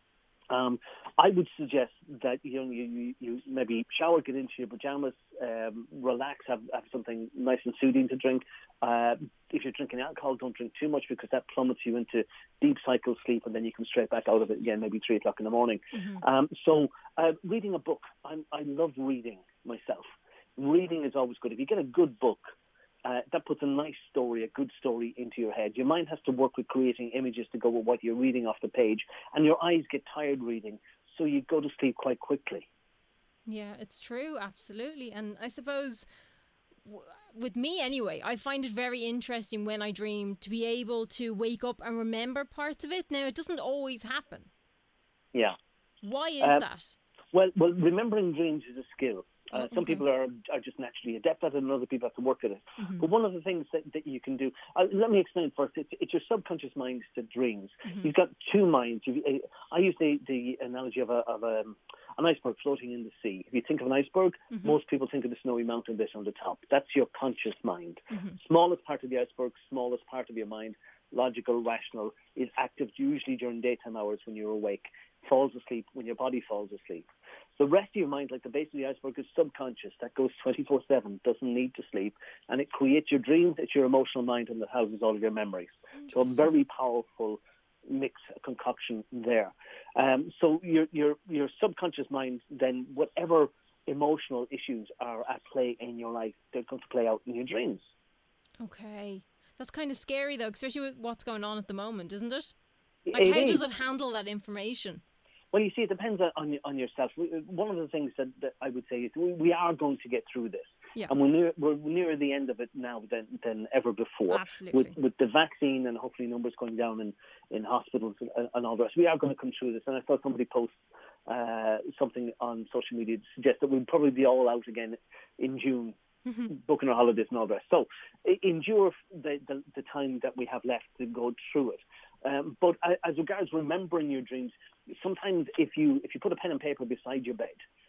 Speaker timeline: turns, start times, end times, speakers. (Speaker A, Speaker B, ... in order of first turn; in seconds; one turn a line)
Speaker A: 0.5-32.7
Speaker B: 15.9-16.2
Speaker B: 33.5-36.1
Speaker B: 36.9-44.5
Speaker B: 46.0-47.0
Speaker A: 47.3-77.1
Speaker B: 49.5-50.0
Speaker B: 52.8-53.1
Speaker B: 57.9-58.1
Speaker B: 64.5-64.8
Speaker B: 68.1-68.4
Speaker A: 77.6-97.9
Speaker B: 86.0-86.5
Speaker B: 98.6-102.5
Speaker A: 103.1-103.6
Speaker B: 103.1-105.0
Speaker A: 105.5-126.0
Speaker B: 114.3-115.0
Speaker B: 126.3-126.5
Speaker A: 126.5-137.6